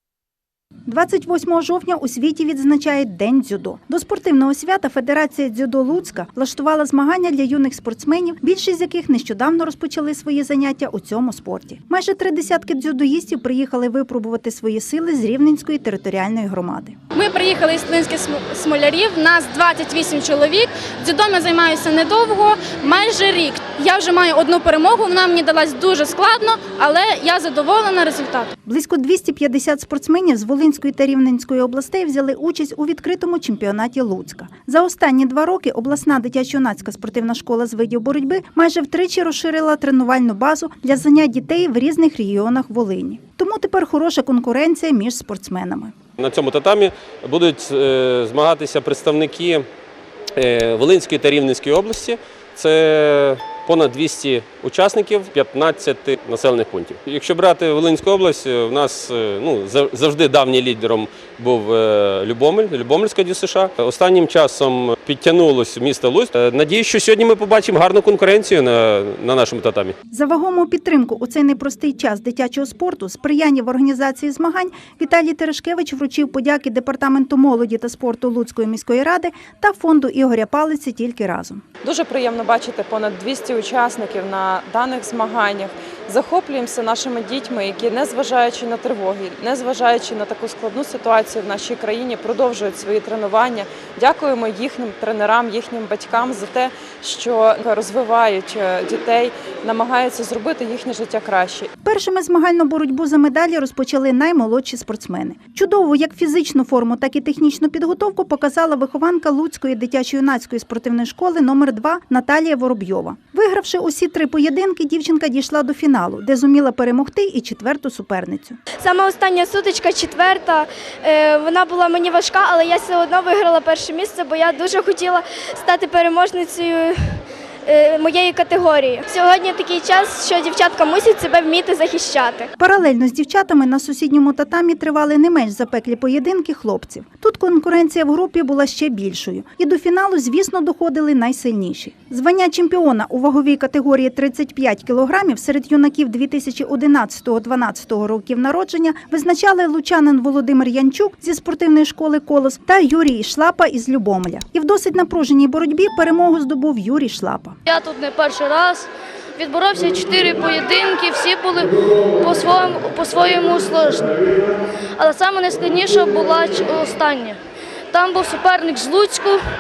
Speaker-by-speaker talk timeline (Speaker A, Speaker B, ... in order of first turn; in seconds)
Speaker A: 0.9-16.9, 28.6-45.9, 70.1-81.6, 101.8-118.6, 132.6-157.6
Speaker B: 17.1-28.5
Speaker C: 46.2-49.7, 50.4-70.0
Speaker D: 81.8-101.7
Speaker E: 118.8-132.5
Speaker F: 157.7-167.4, 167.9-169.4